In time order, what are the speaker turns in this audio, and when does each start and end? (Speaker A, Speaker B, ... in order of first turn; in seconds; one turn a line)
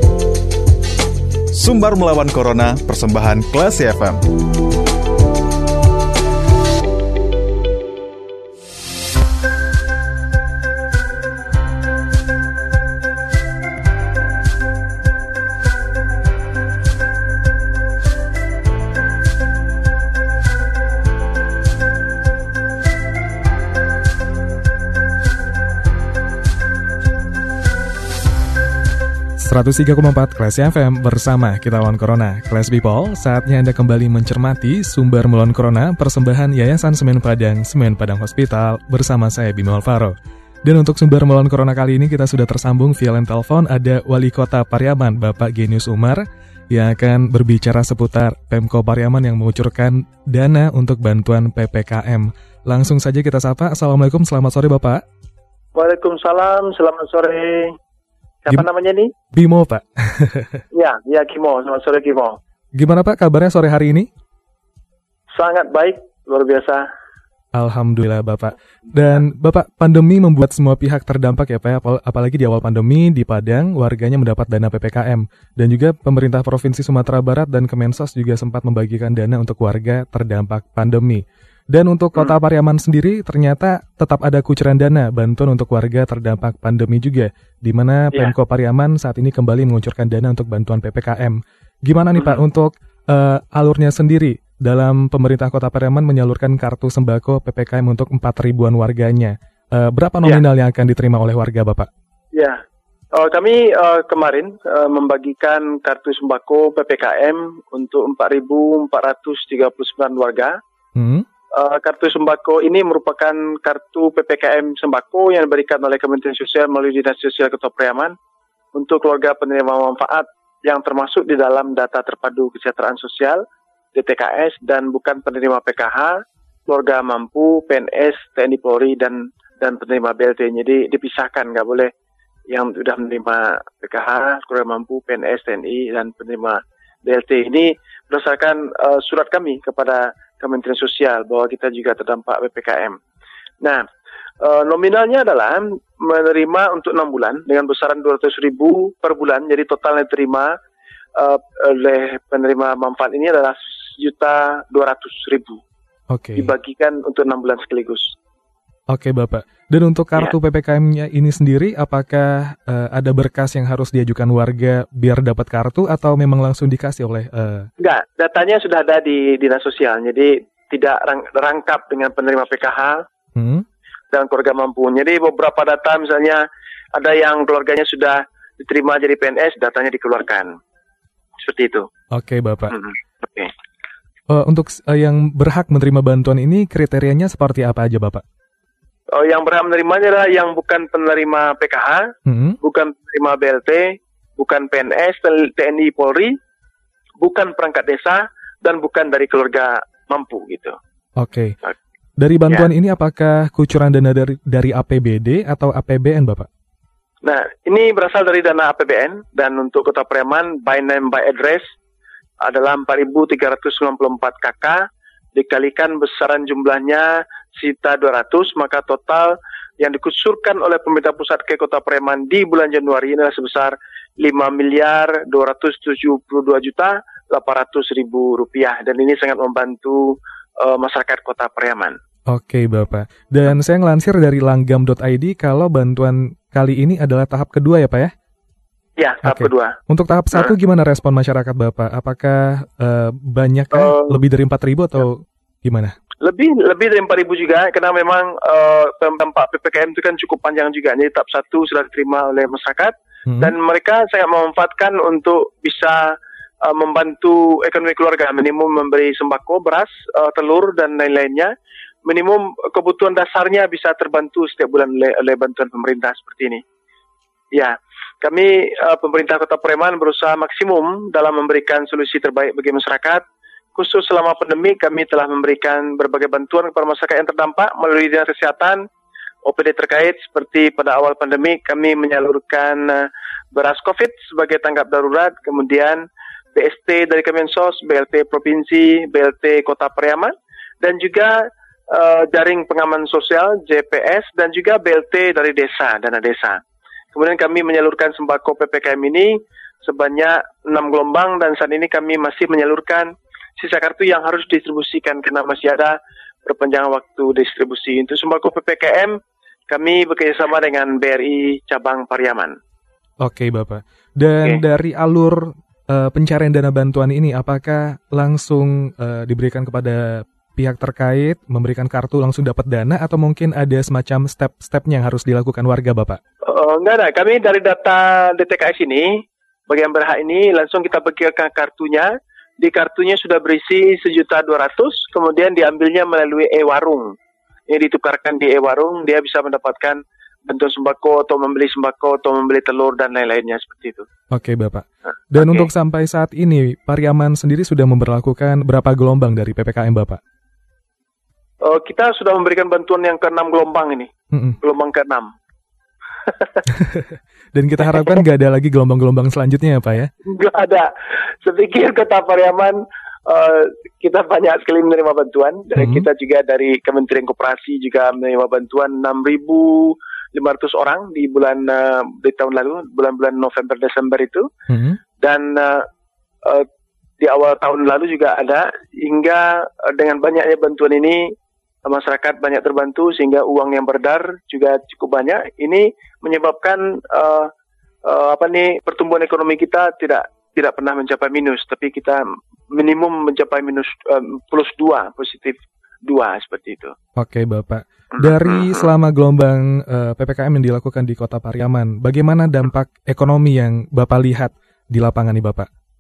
Speaker A: 1.5-4.2
Speaker B: 29.4-55.0
Speaker C: 55.7-57.8
Speaker C: 58.5-59.1
Speaker B: 59.3-60.6
Speaker C: 60.7-62.4
Speaker B: 62.8-64.1
Speaker C: 65.3-66.9
Speaker B: 67.5-101.9
Speaker C: 92.2-92.4
Speaker C: 102.3-102.6
Speaker C: 103.1-110.6
Speaker B: 111.0-111.3
Speaker C: 111.5-118.1
Speaker C: 118.7-123.4
Speaker C: 123.9-131.9
Speaker C: 132.5-143.0
Speaker C: 144.4-150.5
Speaker C: 151.2-155.6
Speaker B: 156.1-156.5
Speaker C: 156.4-158.2
Speaker B: 158.9-167.7
Speaker C: 167.8-173.0
Speaker B: 173.4-173.7
Speaker C: 174.1-180.5
Speaker C: 181.4-181.9
Speaker B: 182.1-182.8
Speaker C: 182.7-183.5
Speaker B: 184.3-188.2
Speaker C: 189.1-192.1
Speaker B: 192.3-192.6
Speaker C: 192.6-196.3
Speaker C: 197.2-200.8
Speaker B: 201.2-201.6
Speaker B: 202.2-206.5
Speaker C: 207.2-211.6
Speaker C: 212.4-232.0
Speaker B: 232.3-238.1
Speaker C: 239.0-239.8
Speaker B: 239.2-245.9
Speaker C: 243.7-244.2
Speaker C: 246.2-261.5
Speaker B: 253.3-253.5
Speaker C: 262.1-266.6
Speaker C: 267.5-273.2
Speaker C: 273.8-278.8
Speaker C: 279.4-296.6
Speaker C: 297.1-309.2
Speaker C: 309.7-312.6
Speaker B: 313.2-326.2
Speaker C: 326.4-337.1
Speaker C: 337.7-344.1
Speaker B: 344.3-350.2
Speaker C: 345.4-345.7
Speaker C: 351.6-354.1
Speaker B: 354.3-354.6
Speaker C: 354.6-355.3
Speaker B: 356.7-360.1
Speaker C: 357.8-358.2
Speaker C: 360.2-360.9
Speaker C: 361.4-374.5
Speaker B: 365.8-366.1
Speaker B: 374.7-375.0
Speaker C: 375.2-375.8
Speaker C: 377.2-381.3
Speaker C: 381.9-387.5
Speaker C: 388.1-396.9
Speaker B: 397.2-405.7
Speaker C: 398.1-398.9